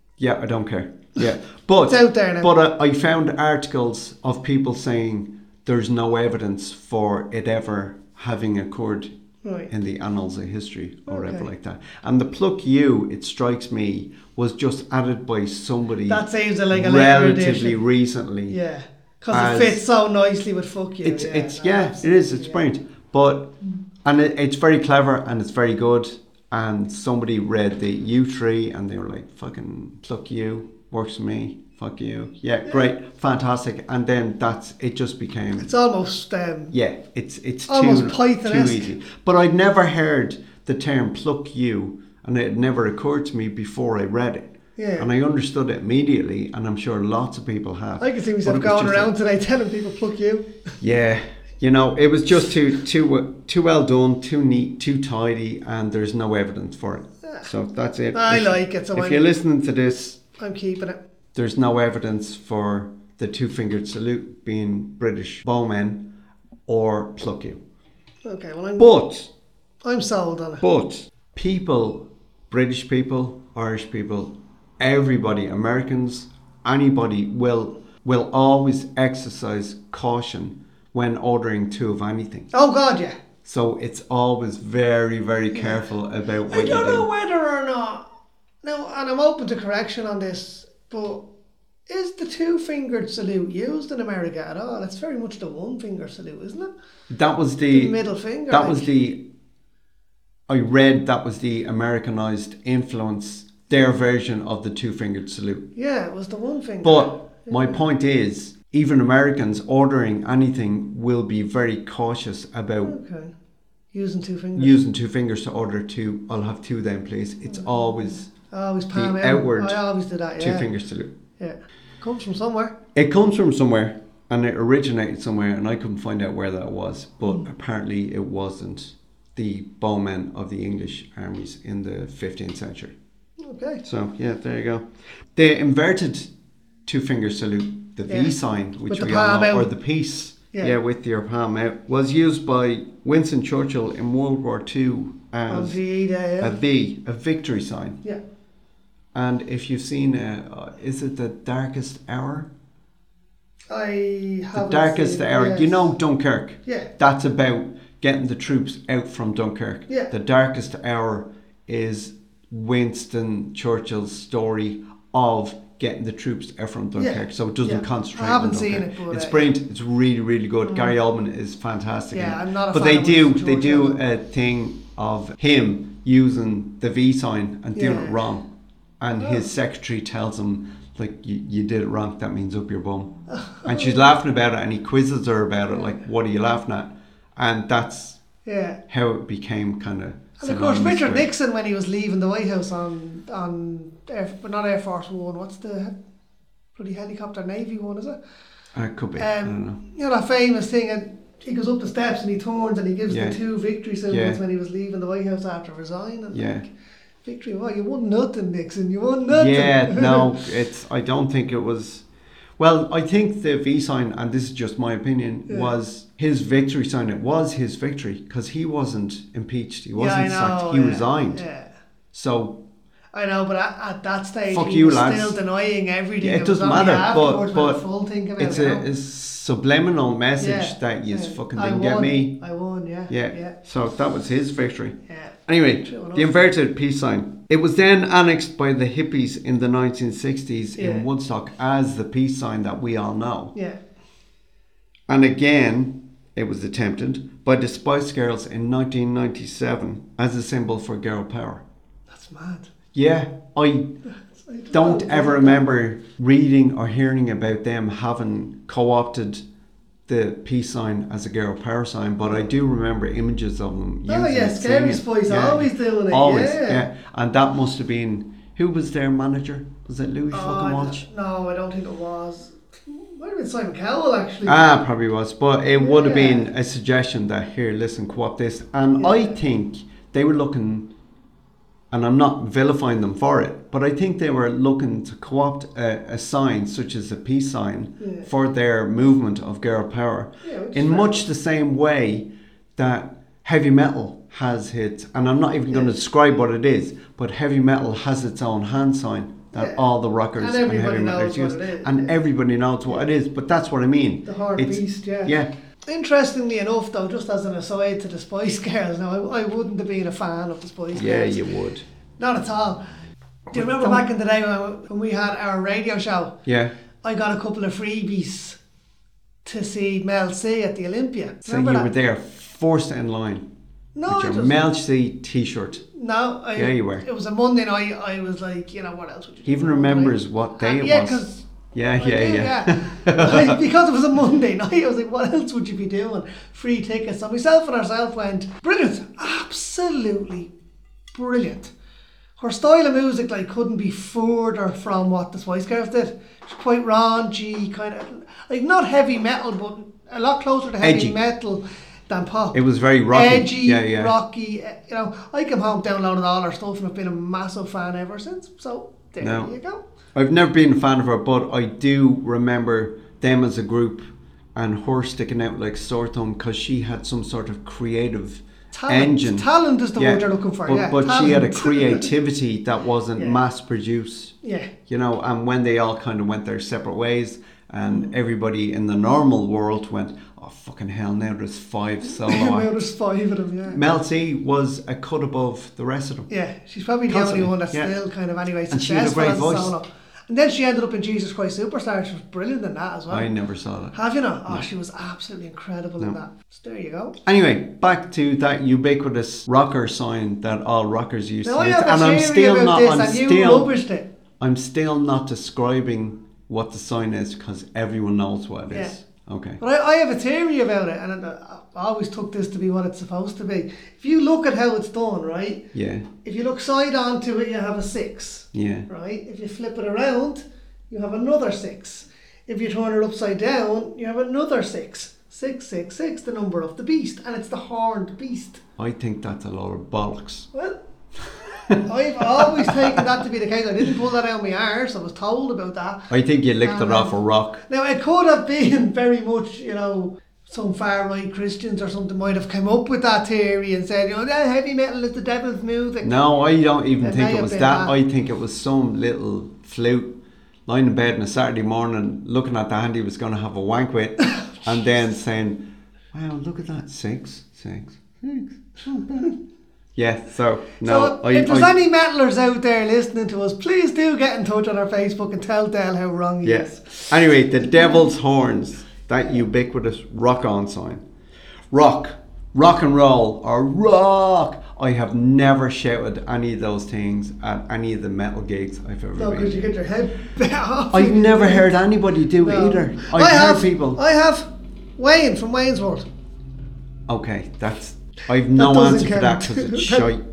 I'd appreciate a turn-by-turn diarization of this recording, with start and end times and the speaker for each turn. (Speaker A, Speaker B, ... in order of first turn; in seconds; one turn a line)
Speaker A: 0.2-9.1
Speaker B: 1.8-2.5
Speaker B: 9.4-9.7
Speaker A: 9.7-18.6
Speaker B: 11.1-11.5
Speaker B: 16.1-17.8
Speaker B: 18.5-22.6
Speaker A: 19.3-19.8
Speaker A: 21.0-23.5
Speaker A: 24.0-35.7
Speaker B: 35.6-36.8
Speaker A: 36.7-49.1
Speaker B: 37.7-38.9
Speaker B: 44.8-45.1
Speaker B: 48.0-50.5
Speaker A: 50.8-60.2
Speaker B: 58.1-59.2
Speaker B: 60.4-61.0
Speaker A: 61.4-66.0
Speaker A: 66.7-67.6
Speaker B: 68.2-68.9
Speaker A: 68.8-69.3
Speaker B: 69.8-70.6
Speaker A: 70.6-82.5
Speaker B: 82.5-83.2
Speaker A: 83.4-87.1
Speaker B: 85.5-85.8
Speaker B: 86.5-88.1
Speaker B: 88.6-91.2
Speaker B: 91.9-96.7
Speaker A: 97.1-98.0
Speaker B: 97.7-98.9
Speaker A: 98.5-99.2
Speaker A: 100.5-105.7
Speaker B: 105.8-107.8
Speaker A: 106.8-113.0
Speaker B: 112.8-113.3
Speaker B: 113.9-114.8
Speaker A: 114.5-118.3
Speaker B: 118.3-120.7
Speaker A: 118.9-119.8
Speaker A: 120.4-121.1
Speaker B: 121.4-122.8
Speaker A: 123.0-132.9
Speaker B: 133.4-133.8
Speaker A: 133.8-134.8
Speaker A: 135.4-136.3
Speaker A: 136.9-145.8
Speaker B: 138.1-138.3
Speaker B: 138.9-139.7
Speaker B: 145.5-146.6
Speaker A: 146.4-148.0
Speaker A: 149.1-152.5
Speaker B: 153.7-155.9
Speaker A: 154.5-178.5
Speaker B: 156.7-156.9
Speaker B: 167.0-169.5
Speaker B: 170.6-170.9
Speaker B: 172.1-174.0
Speaker B: 177.8-178.2
Speaker A: 179.0-188.2
Speaker B: 179.2-179.4
Speaker B: 183.4-184.0
Speaker B: 188.4-188.8
Speaker A: 188.9-191.3
Speaker B: 190.4-196.0
Speaker B: 196.8-198.2
Speaker A: 198.8-199.8
Speaker B: 199.2-206.6
Speaker A: 203.1-203.4
Speaker A: 204.1-204.4
Speaker A: 206.3-206.7
Speaker B: 207.2-210.4
Speaker A: 209.3-212.1
Speaker A: 212.6-221.4
Speaker B: 215.5-215.7
Speaker B: 220.0-221.7
Speaker A: 222.1-222.6
Speaker B: 223.1-228.9
Speaker A: 224.5-225.4
Speaker A: 226.2-227.8
Speaker A: 228.4-232.3
Speaker B: 230.4-233.6
Speaker A: 233.1-235.0
Speaker B: 235.1-236.5
Speaker A: 235.5-243.5
Speaker B: 240.8-241.1
Speaker B: 243.6-243.8
Speaker A: 245.1-251.6
Speaker B: 252.1-252.7
Speaker A: 252.9-253.9
Speaker B: 254.3-255.7
Speaker A: 254.7-259.4
Speaker A: 260.1-271.0
Speaker B: 264.1-266.9
Speaker B: 270.3-274.7
Speaker A: 274.4-280.9
Speaker B: 275.8-276.5
Speaker B: 279.0-279.4
Speaker A: 281.9-305.5
Speaker B: 288.0-288.3
Speaker B: 290.4-291.3
Speaker B: 299.5-299.8
Speaker B: 300.4-302.1
Speaker B: 304.3-305.4
Speaker B: 305.9-311.4
Speaker A: 310.9-311.8
Speaker B: 312.2-312.8
Speaker A: 313.5-314.0
Speaker B: 313.5-316.4
Speaker A: 316.5-316.7
Speaker B: 317.0-318.6
Speaker B: 319.4-321.9
Speaker A: 321.4-323.4
Speaker B: 323.9-324.7
Speaker A: 324.1-325.8
Speaker B: 325.8-331.5
Speaker A: 326.6-327.1
Speaker A: 329.5-331.2
Speaker A: 331.7-333.6
Speaker B: 332.0-340.5
Speaker B: 341.1-341.7
Speaker B: 342.4-352.6
Speaker A: 350.8-351.2
Speaker A: 352.5-354.1
Speaker B: 353.1-359.8
Speaker A: 359.2-359.5
Speaker A: 360.1-374.4
Speaker B: 368.7-372.1
Speaker B: 374.4-374.7
Speaker A: 374.9-382.7
Speaker B: 377.9-378.1
Speaker B: 382.1-383.8
Speaker A: 383.7-386.3
Speaker B: 386.3-393.3
Speaker A: 387.1-387.9
Speaker A: 388.7-389.7
Speaker A: 393.1-394.0
Speaker B: 393.9-397.2
Speaker A: 397.2-403.7
Speaker B: 401.4-404.1
Speaker A: 404.4-409.6
Speaker B: 409.6-415.7
Speaker A: 415.7-416.1
Speaker B: 416.2-428.6
Speaker A: 418.5-418.9
Speaker A: 428.8-430.5
Speaker B: 430.5-430.8
Speaker A: 431.3-433.0
Speaker B: 431.8-436.1
Speaker A: 436.1-437.6
Speaker B: 436.6-446.1
Speaker A: 446.0-450.1
Speaker B: 447.0-447.9
Speaker A: 450.7-455.6
Speaker A: 456.1-459.4
Speaker A: 460.0-461.7
Speaker B: 460.8-468.0
Speaker A: 466.4-471.0
Speaker A: 471.7-479.7
Speaker B: 479.2-481.8
Speaker A: 480.9-484.0
Speaker B: 482.4-486.1
Speaker A: 487.1-490.2
Speaker B: 488.5-490.1